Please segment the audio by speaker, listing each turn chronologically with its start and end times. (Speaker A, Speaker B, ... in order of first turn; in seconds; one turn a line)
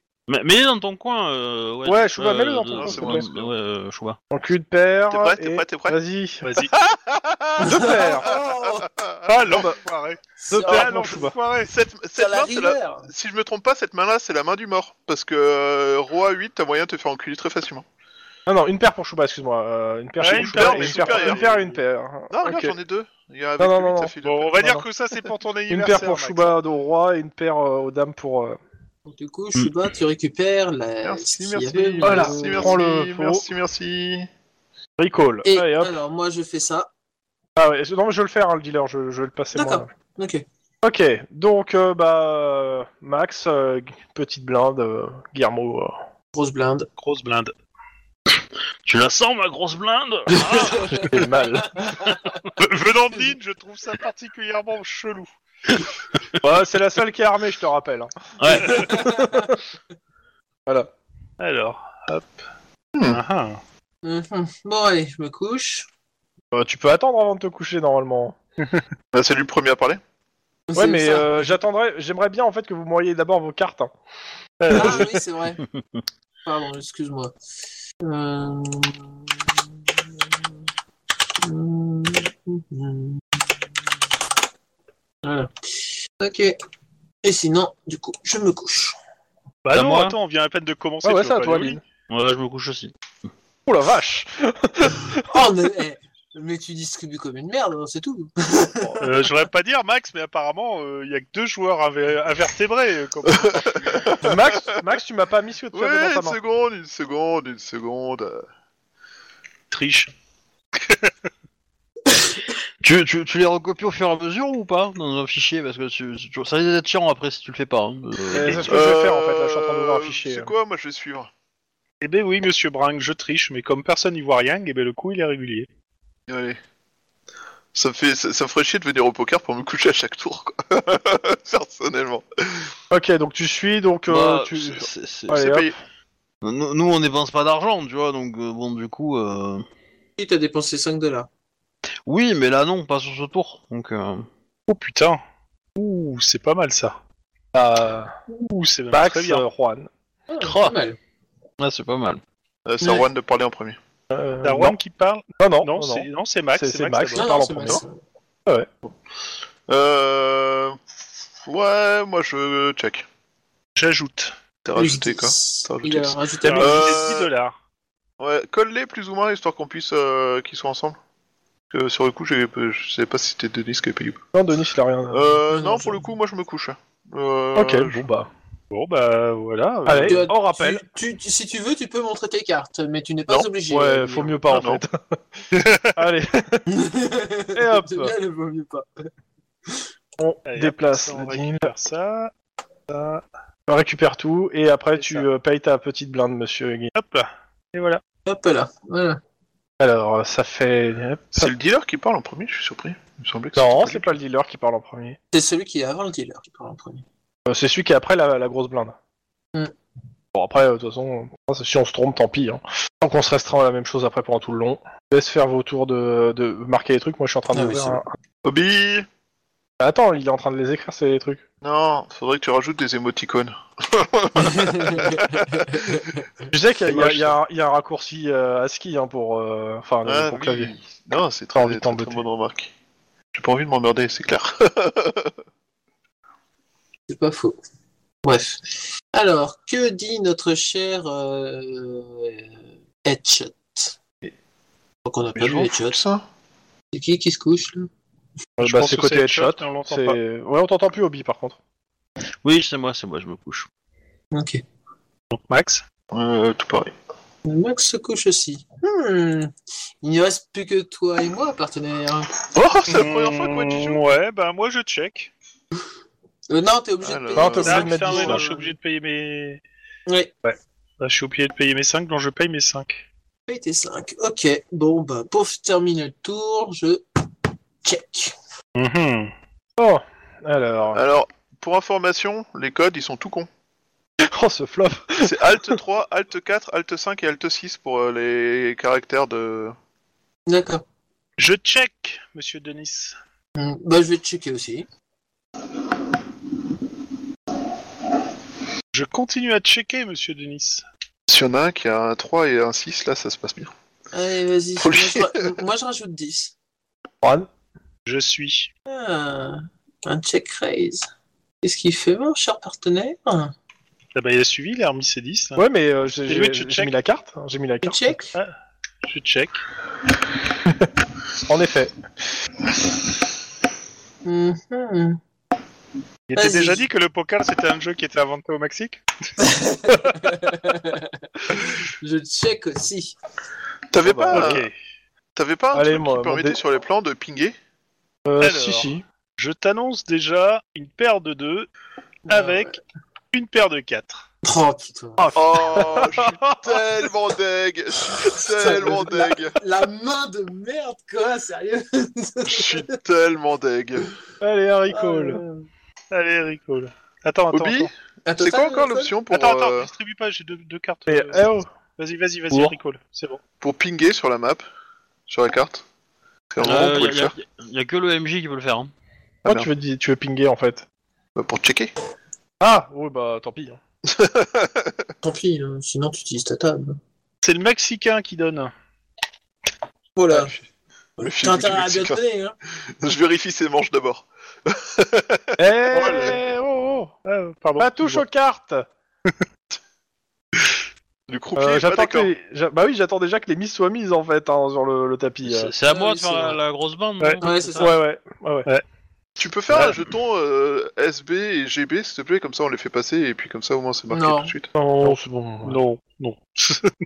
Speaker A: 0.3-4.2
Speaker B: 1.9-3.3
Speaker C: 2.8-3.5
Speaker B: 4.3-6.5
Speaker C: 5.1-6.0
Speaker D: 6.4-6.7
Speaker C: 6.7-9.5
Speaker E: 7.6-8.9
Speaker B: 7.6-8.3
Speaker D: 9.3-11.7
Speaker B: 9.5-9.8
Speaker E: 10.5-11.2
Speaker B: 10.5-11.3
Speaker C: 11.7-17.9
Speaker E: 12.2-13.1
Speaker B: 18.5-22.8
Speaker D: 20.2-21.7
Speaker C: 20.3-21.5
Speaker C: 22.3-24.6
Speaker B: 23.6-24.9
Speaker D: 24.2-26.6
Speaker B: 25.7-28.6
Speaker E: 29.1-32.8
Speaker C: 31.0-34.3
Speaker B: 32.0-33.4
Speaker B: 35.0-36.0
Speaker E: 35.5-36.9
Speaker B: 37.6-39.9
Speaker E: 39.5-40.5
Speaker B: 40.8-46.0
Speaker E: 46.3-46.9
Speaker D: 47.0-47.5
Speaker A: 48.3-51.2
Speaker E: 50.5-52.1
Speaker B: 50.9-51.9
Speaker D: 52.5-55.3
Speaker B: 56.4-59.6
Speaker A: 58.4-58.9
Speaker E: 58.6-59.5
Speaker D: 61.4-62.3
Speaker C: 63.0-63.2
Speaker D: 63.1-63.6
Speaker E: 64.0-65.9
Speaker B: 66.5-68.4
Speaker C: 69.1-70.0
Speaker E: 70.7-71.5
Speaker B: 70.8-73.9
Speaker D: 74.6-75.1
Speaker E: 74.7-75.6
Speaker B: 74.7-75.1
Speaker E: 76.5-77.3
Speaker E: 78.0-79.2
Speaker E: 81.4-83.2
Speaker E: 85.2-86.6
Speaker E: 87.2-89.0
Speaker D: 89.7-91.8
Speaker A: 89.7-90.2
Speaker B: 91.0-91.8
Speaker A: 92.1-92.9
Speaker B: 93.7-95.5
Speaker E: 95.3-99.0
Speaker B: 98.8-99.2
Speaker D: 99.0-104.1
Speaker C: 103.3-104.8
Speaker B: 104.2-106.4
Speaker C: 105.7-108.5
Speaker D: 109.7-110.1
Speaker A: 112.8-118.7
Speaker B: 118.3-120.5
Speaker C: 118.7-121.3
Speaker D: 122.0-125.7
Speaker C: 126.3-126.6
Speaker C: 127.7-132.7
Speaker B: 132.9-135.8
Speaker A: 134.1-135.6
Speaker C: 135.4-135.7
Speaker A: 136.4-139.7
Speaker E: 140.2-141.3
Speaker A: 142.1-144.3
Speaker D: 144.7-145.2
Speaker D: 145.8-147.0
Speaker B: 147.5-148.1
Speaker D: 148.3-149.4
Speaker B: 148.9-149.9
Speaker E: 150.3-151.0
Speaker A: 150.4-150.8
Speaker A: 151.6-152.2
Speaker C: 152.7-153.8
Speaker B: 154.1-154.8
Speaker D: 154.4-157.3
Speaker B: 155.4-157.8
Speaker E: 157.2-158.0
Speaker C: 159.7-160.8
Speaker C: 161.4-163.1
Speaker D: 163.8-164.3
Speaker C: 164.6-167.3
Speaker E: 164.8-167.0
Speaker D: 166.4-167.6
Speaker C: 168.2-171.0
Speaker C: 171.7-174.2
Speaker B: 174.3-175.3
Speaker C: 175.1-178.0
Speaker E: 175.5-176.0
Speaker B: 177.6-178.3
Speaker D: 178.7-180.3
Speaker B: 179.9-180.8
Speaker E: 179.9-184.4
Speaker B: 183.7-185.2
Speaker C: 184.5-184.8
Speaker D: 185.5-185.9
Speaker B: 185.9-186.7
Speaker E: 186.7-188.9
Speaker B: 187.6-188.1
Speaker B: 190.2-191.7
Speaker D: 190.5-192.3
Speaker D: 192.9-193.2
Speaker B: 193.7-196.9
Speaker D: 195.0-195.3
Speaker D: 196.9-198.0
Speaker E: 198.3-199.2
Speaker B: 199.8-201.5
Speaker C: 201.3-204.1
Speaker B: 203.6-205.2
Speaker E: 205.3-207.0
Speaker B: 207.5-208.9
Speaker B: 210.3-218.1
Speaker E: 217.5-218.0
Speaker C: 218.4-219.1
Speaker B: 219.8-221.4
Speaker C: 221.6-225.9
Speaker E: 224.9-225.2
Speaker E: 225.7-226.0
Speaker B: 226.5-230.7
Speaker C: 230.1-232.7
Speaker B: 231.6-232.2
Speaker C: 233.3-235.3
Speaker E: 237.1-237.6
Speaker E: 238.2-242.5
Speaker E: 243.0-244.0
Speaker E: 245.1-246.0
Speaker C: 245.4-246.2
Speaker E: 246.9-247.9
Speaker B: 248.6-251.6
Speaker D: 248.6-250.2
Speaker A: 252.4-253.7
Speaker E: 254.3-254.6
Speaker D: 255.3-255.8
Speaker C: 256.1-256.9
Speaker E: 257.4-262.4
Speaker C: 262.4-264.0
Speaker D: 262.9-265.3
Speaker E: 266.5-268.7
Speaker C: 267.0-267.9
Speaker B: 267.4-268.4
Speaker D: 267.6-269.6
Speaker E: 270.1-270.3
Speaker D: 270.4-273.0
Speaker E: 273.5-277.0
Speaker E: 277.8-278.4
Speaker D: 278.8-279.3
Speaker B: 279.8-281.0
Speaker C: 280.9-283.5
Speaker B: 284.2-285.8
Speaker C: 285.2-289.8
Speaker E: 290.5-290.8
Speaker D: 291.4-293.2
Speaker E: 293.6-294.9
Speaker D: 298.9-300.8
Speaker C: 301.3-303.7
Speaker E: 304.1-306.5
Speaker C: 304.8-305.5
Speaker B: 307.2-307.5
Speaker D: 308.1-308.7
Speaker E: 308.9-311.1
Speaker E: 311.6-313.5
Speaker D: 314.1-315.6
Speaker B: 315.6-318.1
Speaker D: 316.3-316.9
Speaker E: 317.8-318.4
Speaker D: 319.0-319.6
Speaker B: 321.5-321.9
Speaker E: 324.2-325.2
Speaker D: 326.3-329.0
Speaker E: 326.4-326.9
Speaker E: 329.4-333.1
Speaker C: 333.9-334.7
Speaker B: 334.0-334.6
Speaker D: 334.3-334.7
Speaker C: 335.4-337.6
Speaker B: 335.7-336.6
Speaker B: 338.3-339.0
Speaker D: 338.4-341.7
Speaker E: 342.3-342.8
Speaker D: 342.3-342.8
Speaker D: 343.3-344.2
Speaker E: 344.4-345.8
Speaker B: 345.2-346.4
Speaker C: 345.4-349.6
Speaker E: 348.2-352.9
Speaker C: 352.4-354.1
Speaker B: 354.4-355.4
Speaker E: 354.9-355.7
Speaker D: 356.1-357.9
Speaker C: 357.5-359.9
Speaker E: 358.3-359.1
Speaker D: 359.3-363.4
Speaker B: 361.1-361.7
Speaker C: 363.6-364.6
Speaker C: 365.3-365.8
Speaker C: 366.5-367.4
Speaker A: 366.6-368.9
Speaker B: 369.4-370.9
Speaker C: 371.4-371.9
Speaker B: 372.6-373.8
Speaker C: 374.1-375.1
Speaker E: 375.2-377.0
Speaker D: 377.4-378.7
Speaker E: 380.2-380.5
Speaker C: 380.3-380.6
Speaker E: 381.2-382.6
Speaker C: 381.2-382.2
Speaker C: 383.0-385.6
Speaker B: 385.6-387.1
Speaker D: 385.9-386.4
Speaker D: 387.3-388.2
Speaker B: 387.8-388.9
Speaker C: 391.3-392.3
Speaker B: 391.6-395.7
Speaker A: 395.4-397.9
Speaker E: 395.9-396.6
Speaker E: 397.4-398.0
Speaker B: 397.8-398.7
Speaker C: 399.4-404.7
Speaker D: 399.7-400.0
Speaker E: 404.1-404.5
Speaker B: 404.8-405.8
Speaker D: 405.0-406.9